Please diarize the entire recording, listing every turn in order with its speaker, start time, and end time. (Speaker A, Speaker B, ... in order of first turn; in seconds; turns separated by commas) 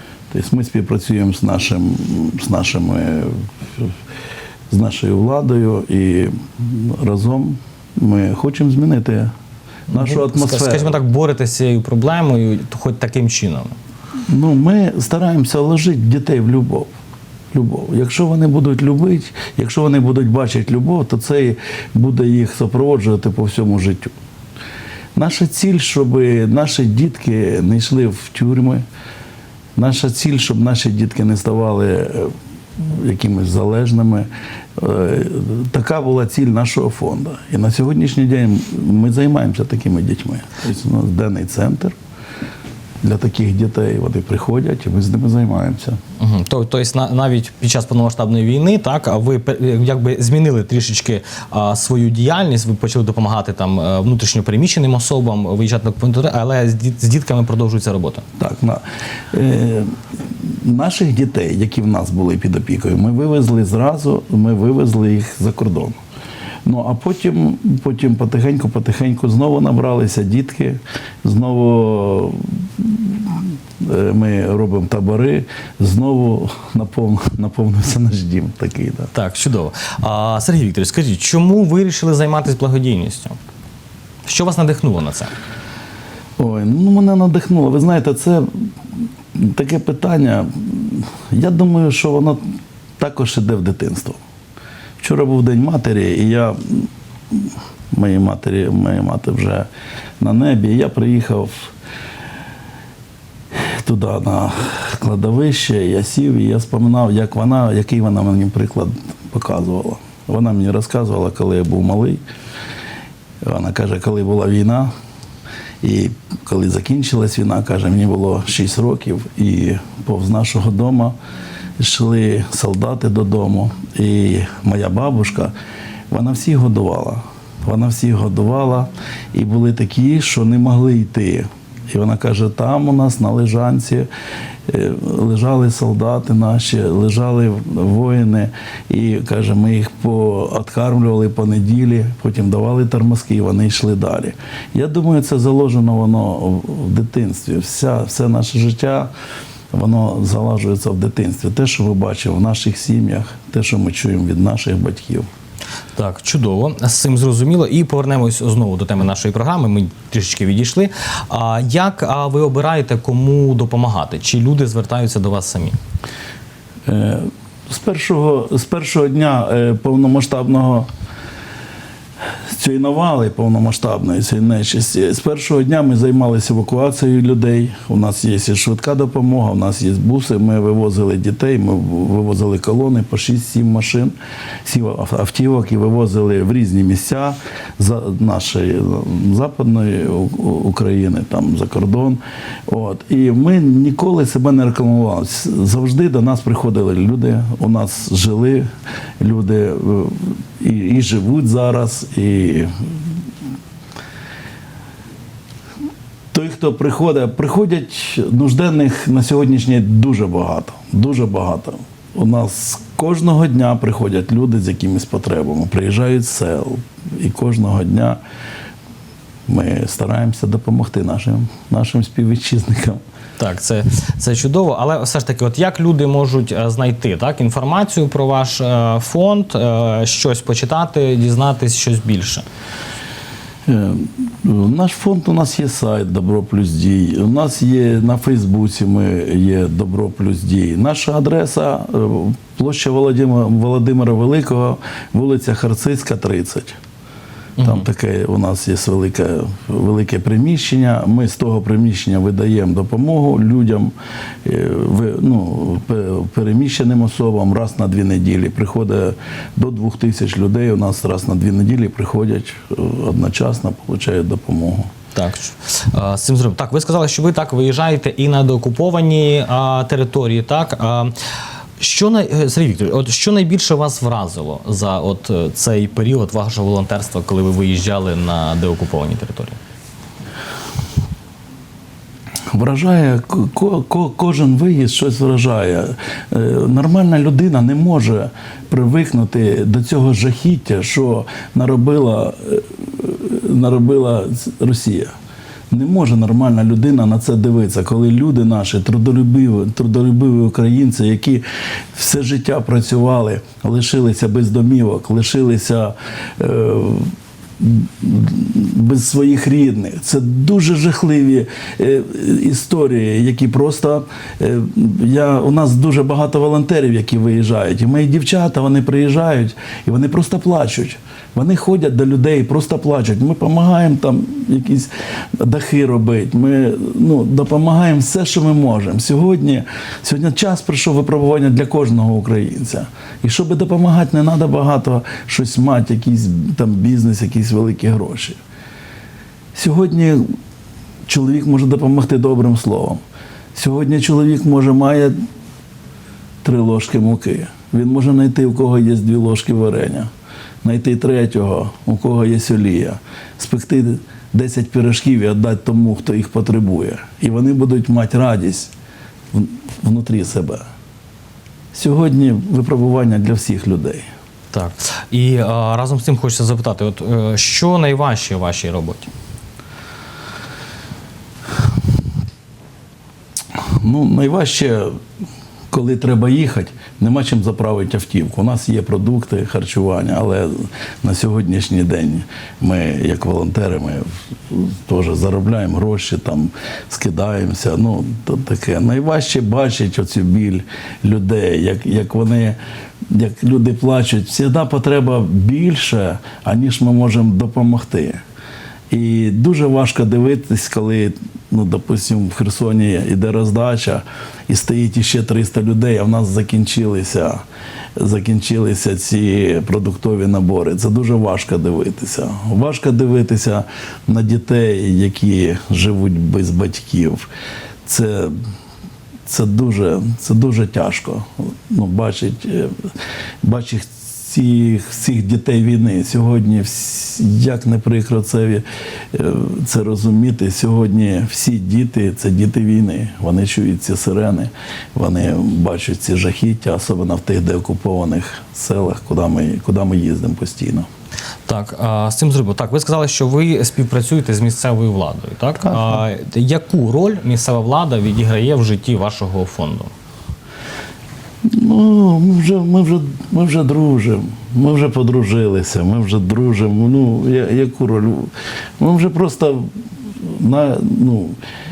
Speaker A: 0.3-3.9, Speaker A: 4.7-9.3, Speaker A: 9.9-11.0, Speaker B: 9.9-13.8, Speaker A: 14.3-16.9, Speaker A: 17.5-24.1, Speaker A: 25.1-28.8, Speaker A: 29.8-42.0, Speaker A: 43.0-46.0, Speaker B: 46.2-58.2, Speaker A: 58.4-58.8, Speaker A: 59.3-59.9, Speaker A: 60.5-66.0, Speaker A: 66.7-79.1, Speaker B: 79.1-83.4, Speaker B: 84.2-85.3, Speaker A: 86.4-88.5, Speaker A: 89.3-92.4, Speaker A: 93.0-94.2, Speaker A: 95.0-99.7, Speaker A: 100.2-101.7, Speaker A: 103.7-112.2, Speaker A: 113.4-114.9, Speaker A: 115.8-121.2, Speaker A: 121.8-125.5, Speaker A: 126.1-134.1, Speaker A: 134.7-149.1, Speaker A: 149.7-155.3, Speaker B: 156.0-165.8, Speaker A: 166.9-170.9, Speaker A: 172.5-184.1, Speaker A: 184.7-198.7, Speaker A: 199.2-202.7, Speaker A: 206.3-218.2, Speaker A: 219.5-223.0, Speaker B: 223.4-232.4, Speaker A: 233.7-246.8, Speaker B: 247.6-247.9, Speaker A: 247.6-253.9, Speaker A: 254.4-264.9, Speaker B: 265.1-271.1, Speaker B: 271.8-279.6, Speaker A: 282.5-295.1, Speaker A: 295.7-301.4, Speaker A: 301.9-338.4, Speaker A: 339.6-340.2, Speaker A: 341.1-343.0, Speaker A: 343.6-345.1, Speaker A: 346.4-350.1, Speaker A: 350.6-358.7, Speaker A: 359.3-360.6, Speaker A: 361.7-364.1, Speaker B: 364.5-369.1, Speaker A: 373.8-374.9, Speaker A: 375.7-392.6, Speaker A: 393.1-398.2, Speaker A: 398.9-407.4, Speaker A: 408.0-417.3, Speaker A: 417.9-418.4, Speaker A: 419.3-422.8, Speaker A: 423.4-440.9, Speaker B: 441.5-449.9, Speaker A: 445.6-446.0, Speaker A: 451.5-459.7, Speaker A: 460.2-461.4